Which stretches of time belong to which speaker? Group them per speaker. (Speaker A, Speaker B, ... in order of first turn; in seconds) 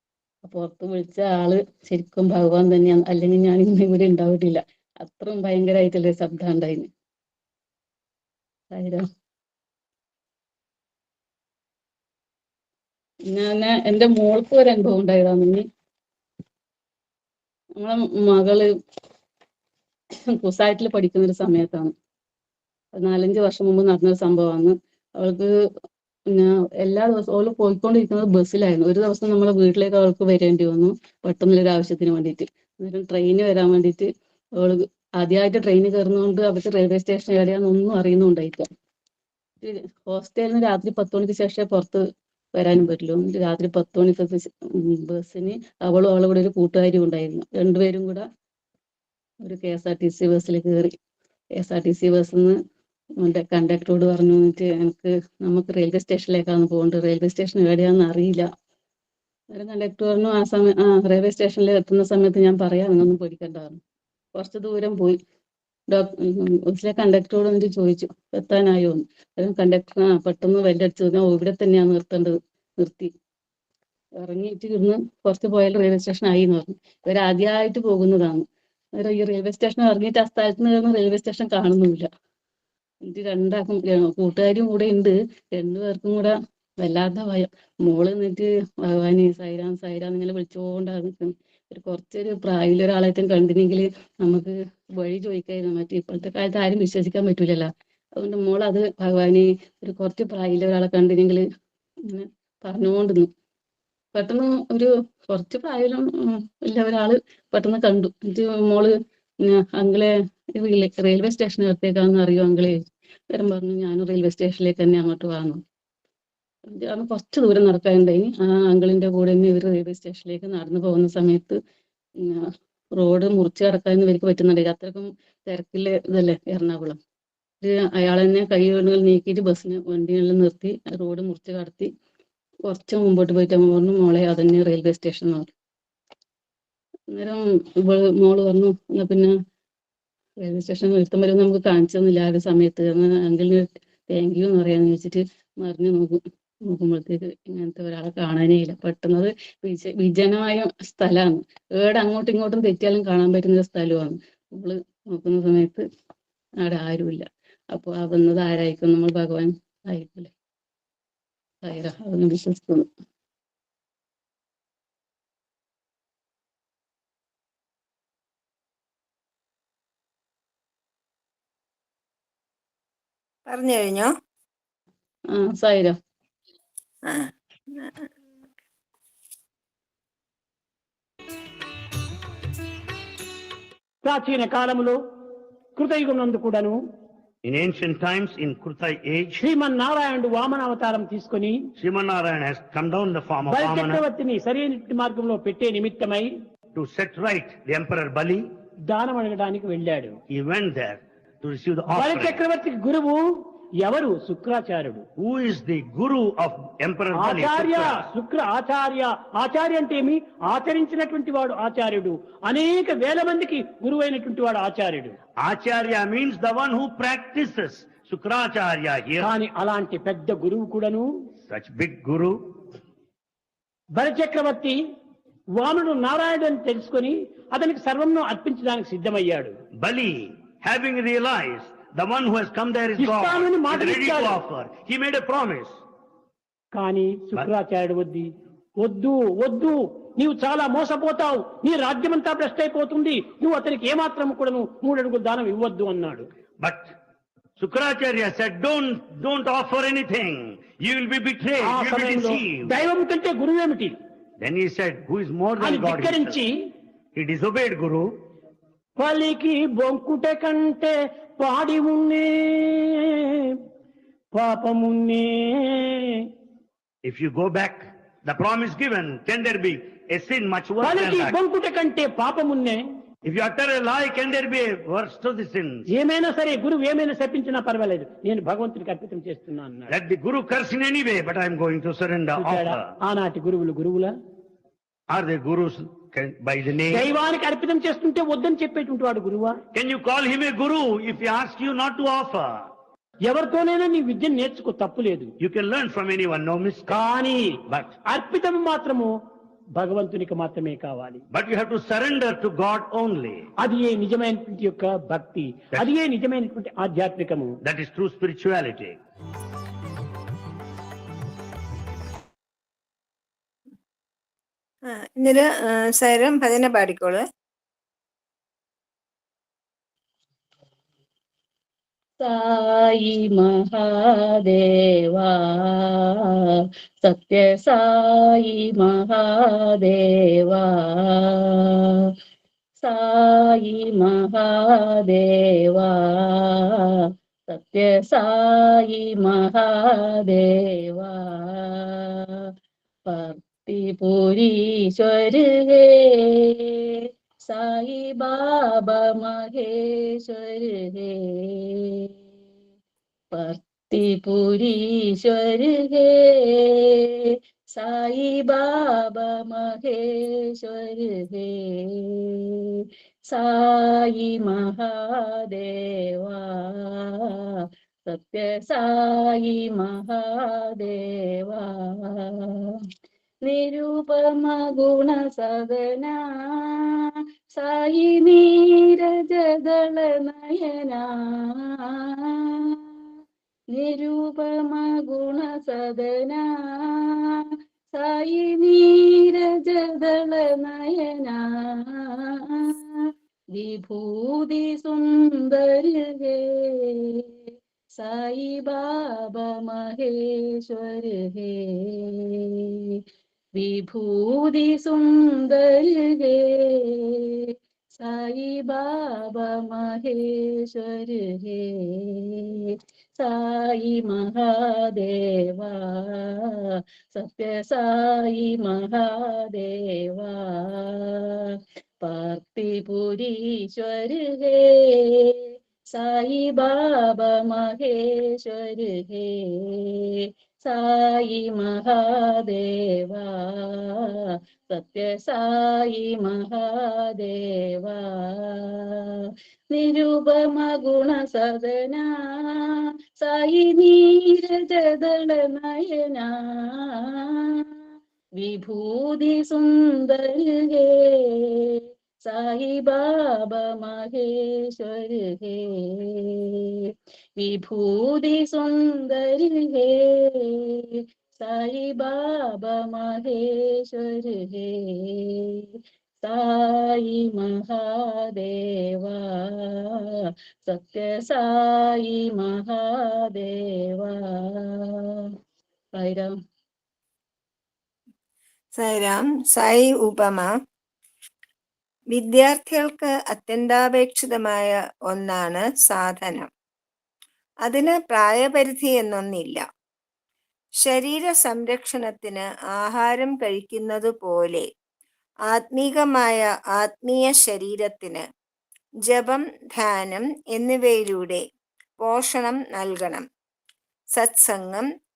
Speaker A: 0.4-6.9, 8.7-9.1, 13.3-15.6, 17.8-18.7, 20.4-21.9, 23.0-25.5, 26.3-38.7, 39.6-42.0, 42.5-48.2, 49.4-50.9, 51.6-52.6, 53.2-58.5, 59.5-63.8, 64.4-65.2, 65.9-73.1, 74.2-78.5, 79.0-82.1, 83.0-101.4, 102.1-103.3, 104.2-112.8, 113.3-115.6, 116.7-121.6, 122.2-127.0, 127.6-131.9, 132.7-135.5, 137.1-139.3, 140.4-155.8, 156.6-160.3, 161.7-162.9, 175.3-175.9, 322.2-326.3, 327.0-332.0, 332.8-342.5, 343.1-352.1, 353.3-372.8, 373.4-382.8, 383.7-387.4, 387.9-393.0, 393.6-397.2, 398.0-402.9, 403.6-447.6, 448.4-456.9, 457.4-465.7, 466.2-470.2, 470.7-475.3, 476.0-476.3
Speaker B: 173.5-174.1, 177.1-178.1, 314.9-317.2, 478.8-480.5, 482.1-486.5, 487.7-489.6, 490.8-494.7, 495.5-498.2, 499.1-501.4, 502.0-503.2, 504.2-504.9
Speaker C: 184.0-185.0, 185.8-186.8, 189.4-191.7, 193.5-196.3, 198.9-200.2, 201.9-203.2, 203.8-205.1, 207.2-215.2, 219.2-221.1, 223.9-224.8, 225.6-229.6, 233.0-234.4, 236.7-238.3, 238.8-246.3, 251.6-254.0, 255.6-256.5, 259.0-263.6, 264.3-266.3, 270.8-272.8, 275.9-279.9, 282.4-284.1, 286.9-289.6, 293.2-295.3, 296.9-299.1, 299.8-301.2, 303.6-307.6
Speaker D: 187.4-189.4, 191.8-194.1, 196.7-198.4, 200.3-202.4, 205.2-208.1, 215.4-219.3, 221.5-222.4, 229.8-235.8, 246.6-246.9, 247.6-252.7, 254.4-256.4, 257.1-258.1, 267.0-271.4, 273.2-275.9, 279.9-282.9, 285.1-287.1, 289.7-292.7, 295.4-297.0, 297.7-297.9, 301.3-303.5, 307.6-309.0